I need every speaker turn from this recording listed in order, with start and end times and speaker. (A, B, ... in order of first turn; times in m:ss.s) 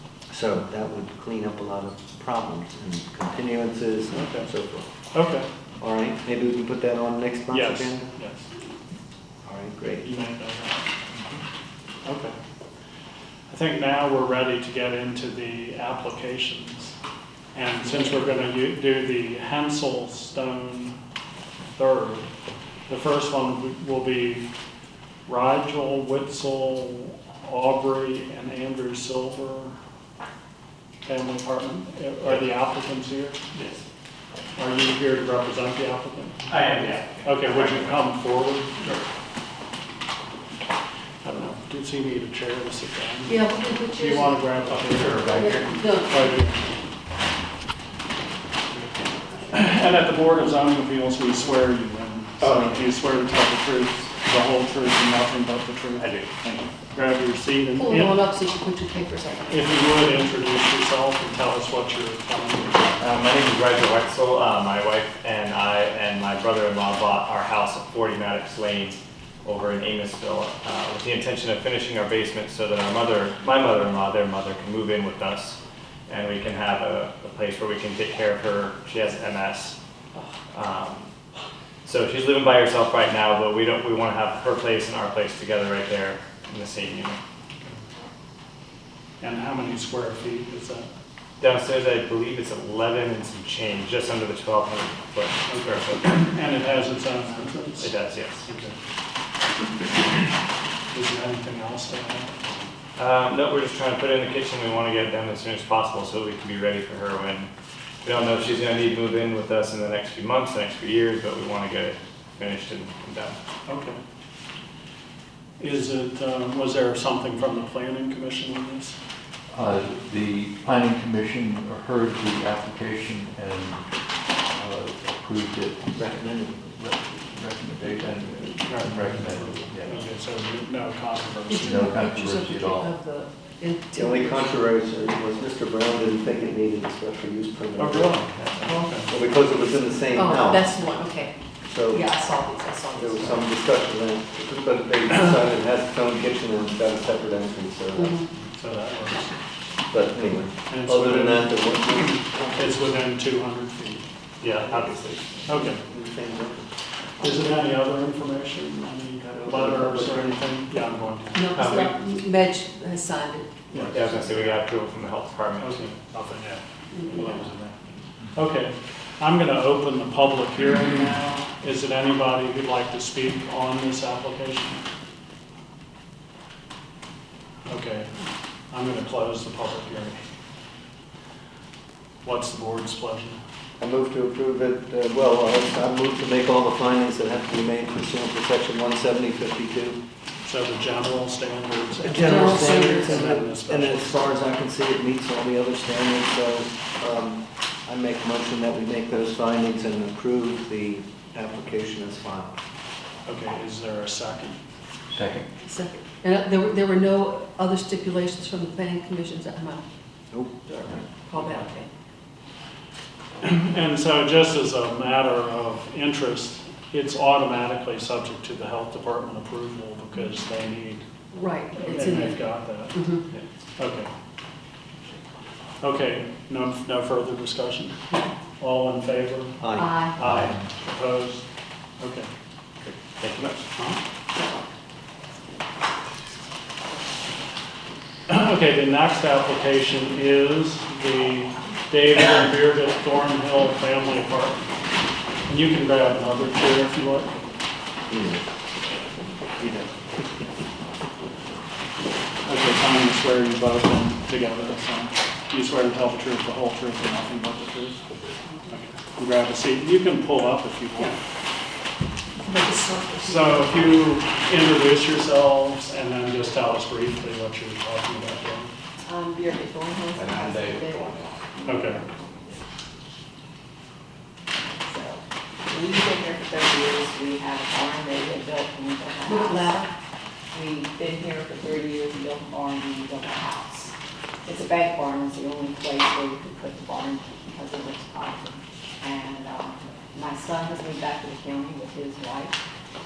0:00.3-0:04.9 A
0:04.1-0:04.5 B
0:05.1-0:05.5 B
0:05.8-0:08.1 A
0:07.5-0:08.5 B
0:09.4-0:10.1 A
0:10.0-0:10.9 B
0:12.0-0:12.4 B
0:13.5-0:16.9 B
0:17.5-0:21.0 B
0:21.8-0:22.3 B
0:22.9-0:24.5 B
0:25.3-0:29.7 B
0:31.0-0:33.5 B
0:34.6-0:36.5 B
0:36.5-0:38.0 C
0:37.2-0:39.0 B
0:41.2-0:46.6 B
0:43.3-0:44.5 D
0:44.7-0:45.5 C
0:45.3-0:46.4 D
0:49.5-0:58.1 B
0:56.0-0:56.3 C
0:57.7-0:59.8 D
0:59.5-1:03.0 B
1:03.0-1:19.8 C
1:20.5-1:21.1 C
1:21.8-1:27.2 C
1:29.2-1:30.9 B
1:31.4-1:36.0 C
1:35.5-1:38.0 B
1:37.8-1:38.4 C
1:38.4-1:38.8 B
1:40.9-1:42.3 B
1:43.0-1:47.5 C
1:48.0-1:53.4 C
1:53.7-1:54.0 B
1:55.6-1:59.0 B
1:59.5-2:10.1 E
2:06.0-2:06.6 A
2:08.6-2:11.9 B
2:11.5-2:14.5 D
2:11.6-2:12.9 E
2:13.9-2:20.7 A
2:17.8-2:19.1 B
2:20.1-2:23.5 D
2:21.7-2:22.1 A
2:22.9-2:28.2 A
2:28.0-2:28.3 D
2:28.4-2:29.4 B
2:29.9-2:32.9 A
2:30.7-2:34.0 B
2:34.4-2:35.2 C
2:34.5-2:36.7 A
2:35.5-2:35.8 B
2:37.2-2:41.8 B
2:39.2-2:40.4 A
2:41.3-2:43.7 D
2:41.6-2:41.9 C
2:43.7-2:44.6 B
2:43.8-2:45.9 C
2:45.6-2:54.8 B
2:46.9-2:47.4 D
2:57.7-2:58.1 B
2:58.7-3:00.2 B
3:02.2-3:03.4 B
3:03.8-3:10.0 A
3:10.4-3:14.3 B
3:12.0-3:22.6 A
3:12.3-3:13.2 D
3:23.2-3:24.6 B
3:25.1-3:25.5 E
3:25.6-3:29.8 D
3:30.3-3:31.1 A
3:31.3-3:31.9 D
3:33.4-3:41.0 B
3:41.3-3:43.2 D
3:41.7-3:43.2 B
3:43.8-3:44.1 B
3:45.8-3:48.0 B
3:48.6-3:51.4 B
3:49.6-3:50.0 A
3:49.7-3:50.2 D
3:50.2-3:50.6 E
3:52.0-3:52.3 B
3:52.8-3:53.6 C
3:58.3-4:04.7 B
4:05.5-4:07.4 B
4:08.1-4:08.4 A
4:09.6-4:09.9 A
4:12.4-4:18.0 B
4:18.7-4:21.1 B
4:22.4-4:23.7 D
4:23.2-4:28.7 B
4:29.0-4:32.6 F
4:30.2-4:31.2 A
4:31.7-4:32.0 B
4:34.8-4:39.9 F
4:39.2-4:39.9 D
4:40.5-4:43.9 F
4:44.4-4:52.6 F